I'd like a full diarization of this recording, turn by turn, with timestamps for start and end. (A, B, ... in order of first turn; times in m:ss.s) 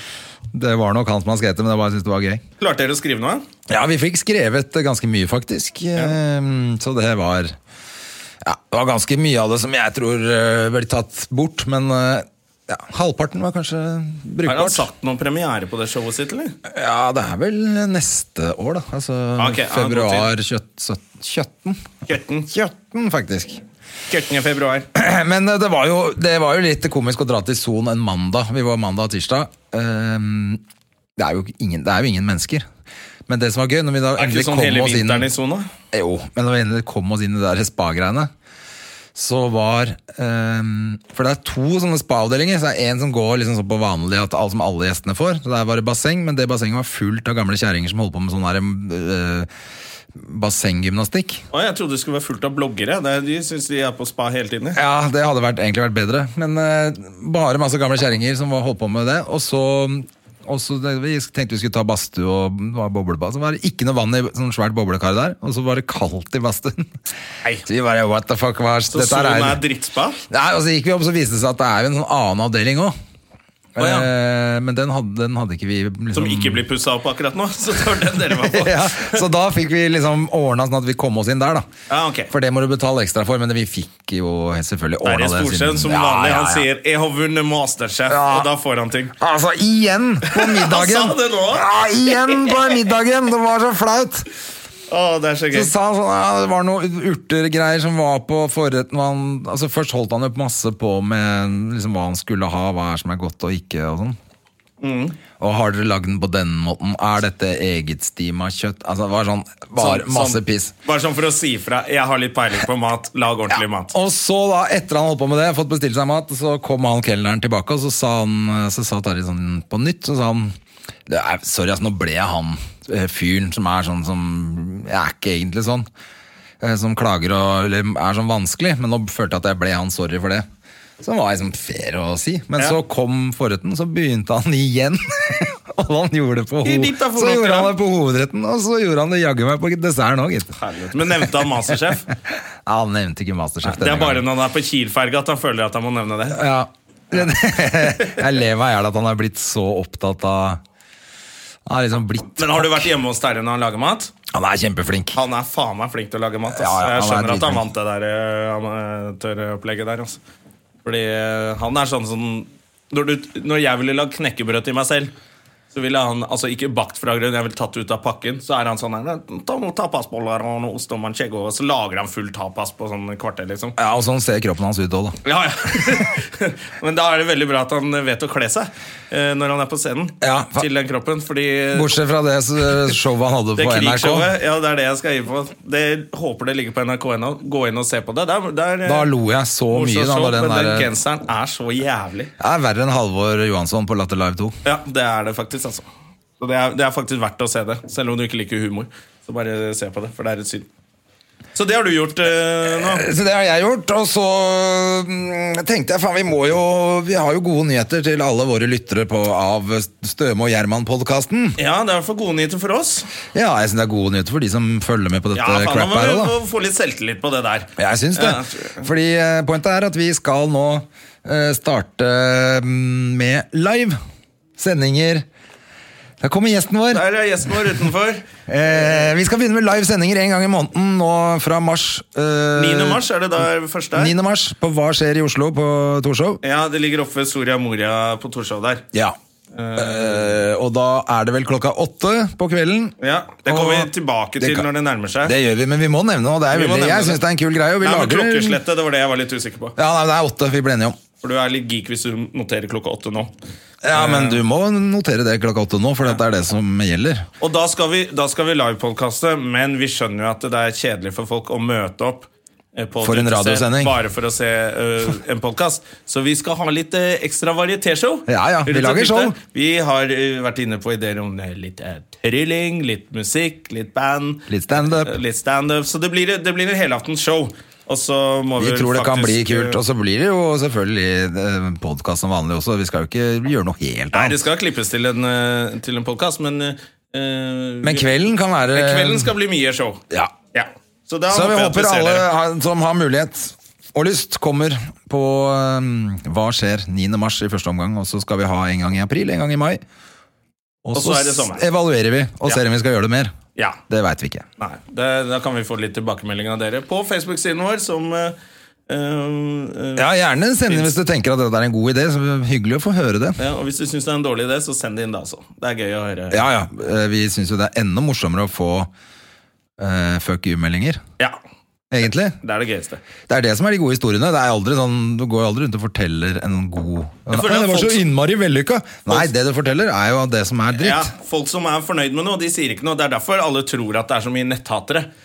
0:00.5-0:02.4 A
0:02.6-0:03.4 B
0:03.7-0:07.6 A
0:08.4-0:14.8 A
0:14.4-0:16.5 B
0:16.6-0:21.9 A
0:19.4-0:20.3 B
0:22.0-0:22.5 B
0:22.5-0:23.6 A
0:24.1-0:24.9 B
0:24.9-0:30.6 A
0:31.2-0:32.6 A
0:33.3-0:35.3 A
0:34.2-0:35.7 B
0:35.9-0:38.3 A
0:39.1-0:49.5 A
0:50.1-0:51.4 A
0:51.5-0:54.8 B
0:54.7-1:06.9 A
1:07.6-1:09.6 A
1:08.9-1:10.2 B
1:10.3-1:12.9 A
1:13.8-1:16.6 A
1:13.8-1:14.1 B
1:16.1-1:19.2 B
1:18.3-1:21.7 A
1:21.9-1:22.3 B
1:22.3-1:26.6 A
1:25.0-1:29.1 B
1:28.1-1:28.5 A
1:29.2-1:34.2 A
1:30.3-1:32.7 B
1:34.9-1:35.7 B
1:35.5-1:44.2 A
1:44.8-1:45.2 B
1:45.4-1:50.7 A
1:49.8-1:53.9 B
1:53.9-2:00.5 A
2:01.1-2:05.8 A
2:06.6-2:10.4 A
2:11.0-2:21.3 A
2:16.6-2:17.7 B
2:20.6-2:22.1 B
2:22.3-2:24.2 A
2:23.6-2:26.4 B
2:26.3-2:30.6 A
2:31.6-2:32.9 A
2:32.4-2:34.1 B
2:34.3-2:35.2 A
2:35.1-2:40.2 B
2:36.5-2:37.6 A
2:40.8-2:45.1 B
2:45.7-2:53.8 B
2:53.8-2:55.2 A
2:55.2-3:01.9 B
3:00.2-3:00.6 A
3:01.7-3:04.3 A
3:03.6-3:09.1 B
3:08.8-3:10.9 A
3:09.7-3:12.3 B
3:12.4-3:14.6 A
3:14.6-3:15.8 B
3:16.4-3:20.7 B
3:21.5-3:23.0 B
3:22.7-3:31.6 A
3:31.6-3:33.1 B
3:33.3-3:36.3 A
3:35.3-3:38.8 B
3:37.8-3:44.0 A
3:44.6-3:45.2 A
3:46.2-3:47.0 A
3:46.9-3:49.1 B
3:48.5-3:53.0 A
3:52.5-3:54.1 B
3:53.9-3:56.4 A
3:56.4-3:58.8 B
3:59.5-4:00.3 B
3:59.8-4:02.9 A
4:03.0-4:05.3 B
4:03.4-4:04.6 A
4:05.2-4:08.6 A
4:06.5-4:07.2 B
4:07.8-4:09.8 B
4:09.8-4:11.0 A
4:11.2-4:13.3 B
4:13.8-4:17.2 A
4:13.9-4:14.4 B
4:17.4-4:39.8 B
4:23.0-4:24.0 A
4:28.3-4:29.3 A
4:34.5-4:35.1 A
4:38.6-4:44.4 A
4:44.1-4:48.1 B
4:47.8-4:49.3 A
4:48.7-4:50.0 B
4:50.5-4:52.2 B
4:51.3-4:59.8 A
5:00.8-5:03.3 A
5:00.9-5:01.6 B
5:03.9-5:04.4 A
5:04.6-5:08.4 B
5:08.9-5:10.1 B
5:10.0-5:13.4 A
5:10.6-5:10.9 B
5:13.4-5:16.4 B
5:16.3-5:18.9 A
5:19.8-5:21.0 A
5:21.9-5:22.4 A
5:22.4-5:23.0 B
5:23.3-5:31.1 A
5:27.3-5:28.0 B
5:30.7-5:35.1 B